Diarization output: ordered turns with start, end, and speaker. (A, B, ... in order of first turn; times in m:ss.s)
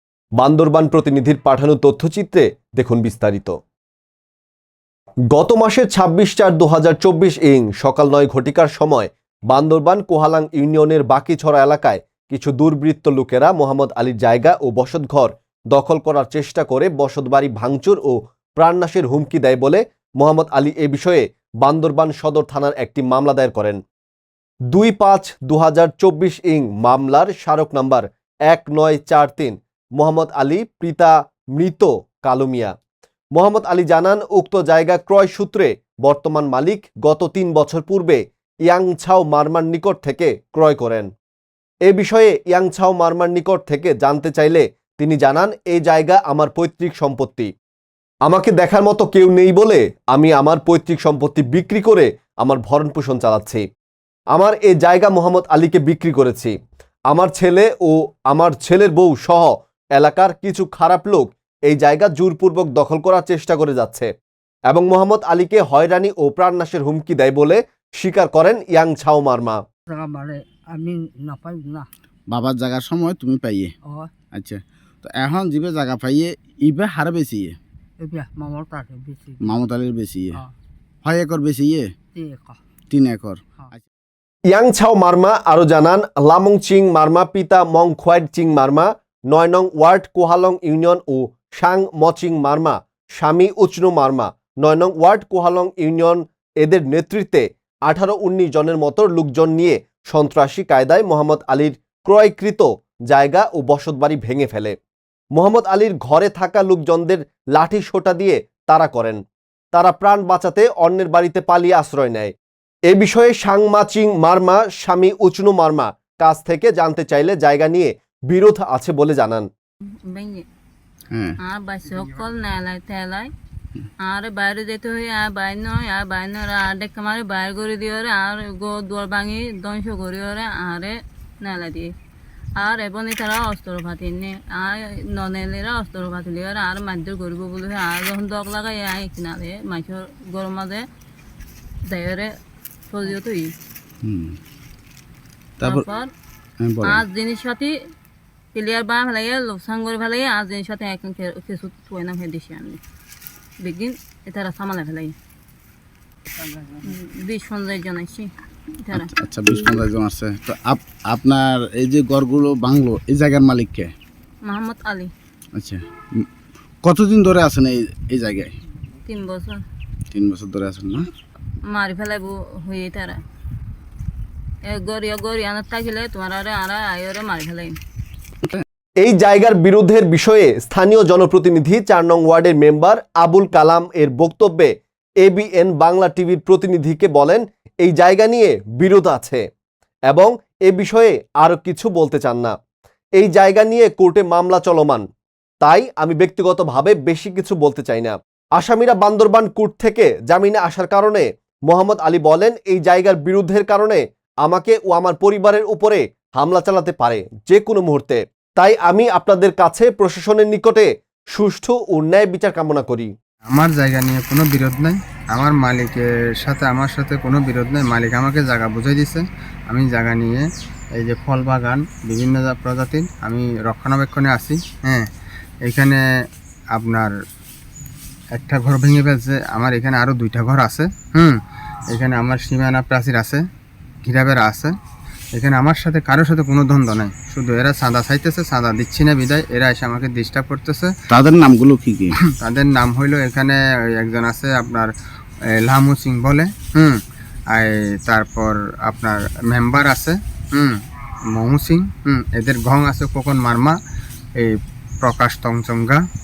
0:00.4-0:03.5 A
0:05.3-0:23.8 A
0:24.7-0:32.7 A
0:33.4-0:41.1 A
0:41.9-0:47.5 A
0:48.3-0:53.6 A
0:54.3-0:56.5 A
0:57.1-1:04.1 A
1:04.7-1:09.6 A
1:09.9-1:11.9 B
1:12.3-1:13.7 C
1:14.4-1:17.6 C
1:18.0-1:19.5 B
1:19.4-1:20.4 C
1:21.0-1:21.9 C
1:22.2-1:22.6 B
1:22.9-1:23.8 C
1:24.5-1:44.8 A
1:45.4-1:49.2 A
1:49.7-1:52.3 A
1:52.9-1:59.5 A
2:00.1-2:00.4 D
2:01.1-2:01.4 C
2:01.4-2:03.3 D
2:04.0-2:11.9 D
2:12.6-2:20.8 D
2:21.9-2:22.3 D
2:22.9-2:23.5 D
2:24.0-2:24.4 C
2:25.6-2:25.9 C
2:25.6-2:26.1 D
2:26.6-2:27.0 C
2:26.8-2:27.7 D
2:28.5-2:32.8 D
2:33.6-2:35.1 D
2:36.8-2:38.3 D
2:38.8-2:39.8 D
2:38.9-2:43.9 C
2:44.4-2:45.1 D
2:45.5-2:46.3 C
2:46.8-2:48.5 C
2:49.1-2:49.6 D
2:50.1-2:51.1 C
2:51.7-2:53.2 D
2:54.7-2:57.8 D
2:59.0-3:04.7 A
3:05.2-3:09.4 A
3:10.1-3:12.6 A
3:13.2-3:15.0 A
3:15.6-3:33.1 A
3:33.5-3:40.4 E
3:41.0-3:45.1 E
3:45.6-3:46.0 E
3:46.7-3:47.1 E
3:48.3-3:51.4 E
3:51.9-3:53.4 E
3:54.0-3:54.8 E
3:55.3-4:00.9 E
4:01.1-4:02.2 C
4:02.4-4:04.9 E
4:05.6-4:07.0 E
4:07.5-4:10.8 E
4:11.3-4:13.8 E
4:14.4-4:16.0 E